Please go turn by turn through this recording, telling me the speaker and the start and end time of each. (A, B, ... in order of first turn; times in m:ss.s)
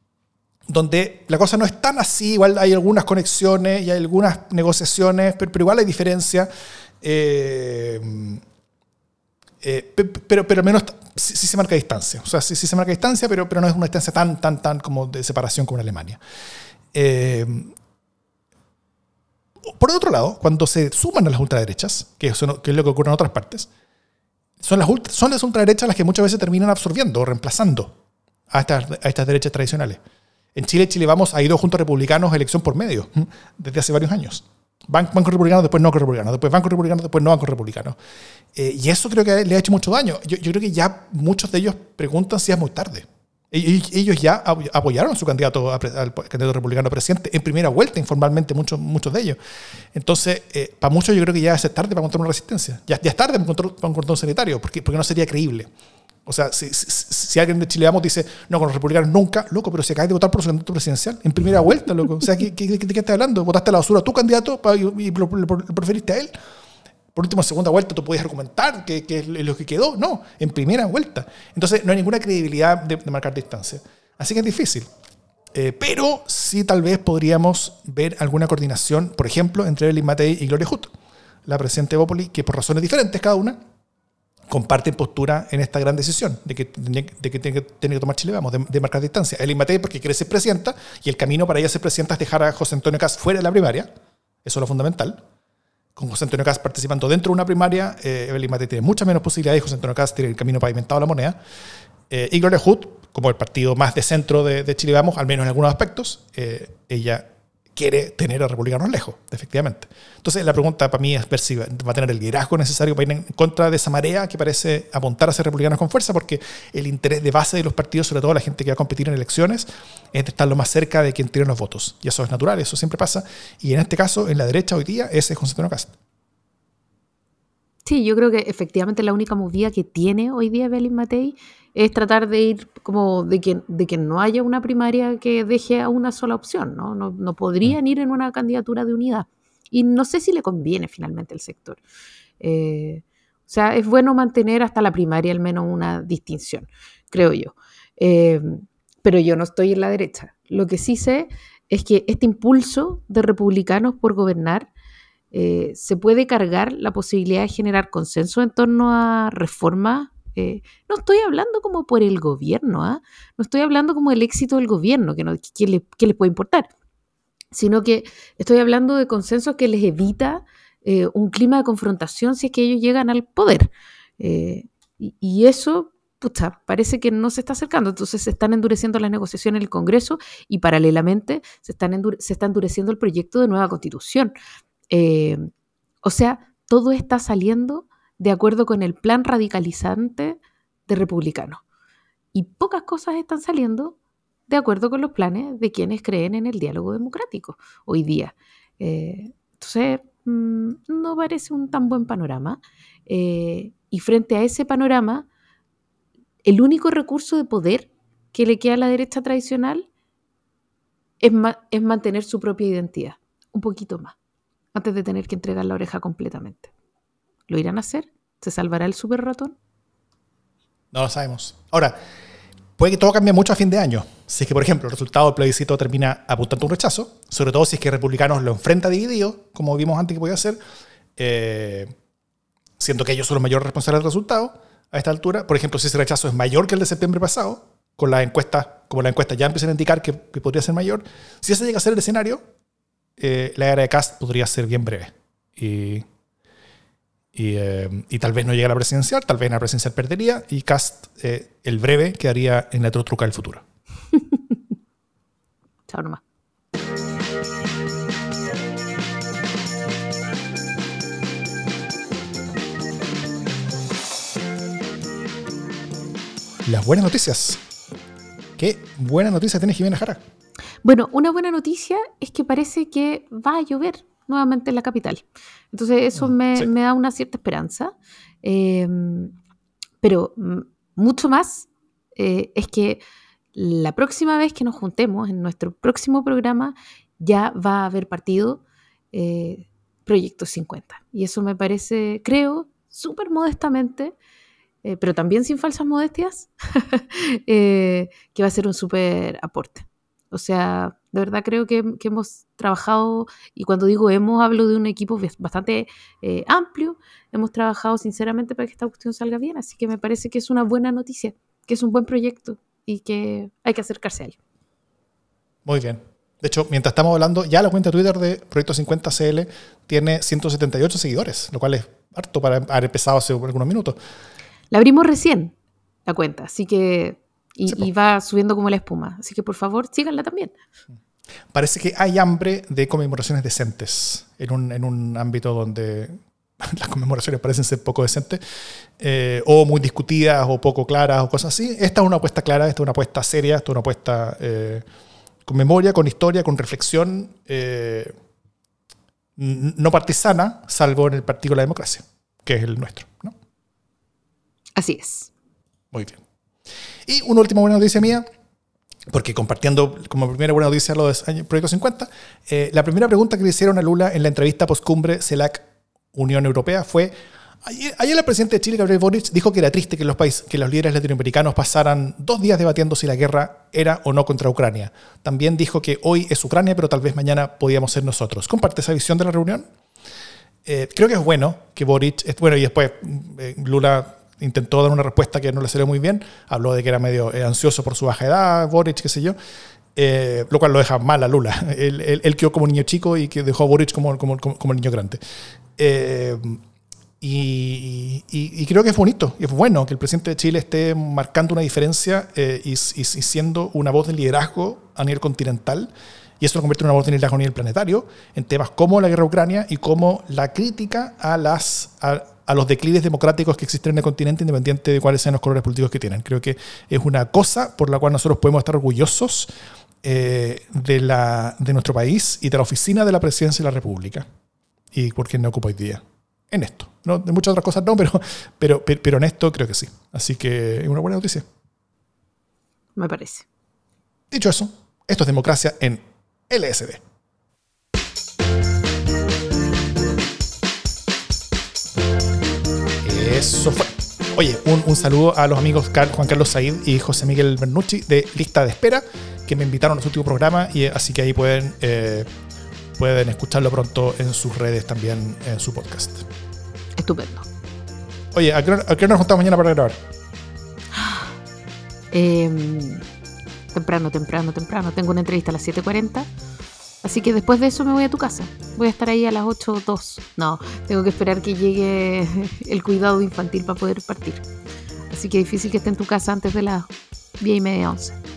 0:00.7-0:06.5 A
0:07.0-0:08.4 A
0:09.6-0:16.2 A
0:16.9-0:17.7 A
0:19.7-0:23.7 A
0:24.6-0:27.9 A
0:28.5-0:30.0 A
0:30.5-0:38.0 A
0:38.5-0:49.4 A
0:49.9-0:55.7 A
0:56.2-1:06.3 A
1:07.1-1:14.9 A
1:15.5-1:20.9 A
1:21.4-1:23.6 A
1:24.5-1:33.9 A
1:34.4-1:35.2 A
1:36.0-1:41.4 A
1:42.1-2:05.9 A
2:07.8-2:21.8 B
2:22.4-2:34.7 B
2:35.3-2:46.7 B
2:47.5-3:04.3 B
3:04.9-3:05.5 B
3:06.0-3:11.6 B
3:12.3-3:14.0 B
3:14.5-3:25.2 B
3:26.4-3:29.8 B
3:31.2-3:34.1 B
3:34.7-3:36.7 B
3:37.5-3:39.5 B
3:40.9-3:42.0 A
3:42.8-3:50.6 A
3:51.2-3:51.9 A
3:52.8-4:02.4 A
4:03.2-4:06.0 A
4:07.3-4:13.6 A
4:15.9-4:16.2 B
4:26.6-4:27.6 A
4:28.6-4:30.2 A
4:30.8-4:39.3 B
4:36.2-4:36.7 A
4:40.0-4:43.0 B
4:43.5-4:54.1 B
4:54.8-5:14.4 B
5:15.6-5:24.0 A
5:24.7-5:25.5 B
5:26.0-5:30.5 B
5:31.5-5:38.4 A
5:39.0-5:44.8 A
5:45.4-5:48.1 A
5:49.4-5:53.3 A
5:54.8-5:55.3 B
5:55.9-5:56.2 A
5:57.0-5:58.3 A
5:59.1-6:07.1 A
6:07.6-6:19.6 A
6:20.6-6:29.4 A
6:30.0-6:35.2 A
6:35.8-6:36.6 A
6:37.2-6:59.5 A
7:00.0-7:04.2 A
7:04.9-7:11.4 A
7:13.0-7:13.4 B
7:14.3-7:17.0 A
7:23.0-7:32.3 A
7:33.0-7:36.2 A
7:37.0-7:37.5 B
7:38.3-7:40.0 A
7:40.9-7:41.3 B
7:42.1-7:43.0 B
7:43.7-7:46.3 B
7:47.0-7:54.4 B
7:55.1-7:58.2 B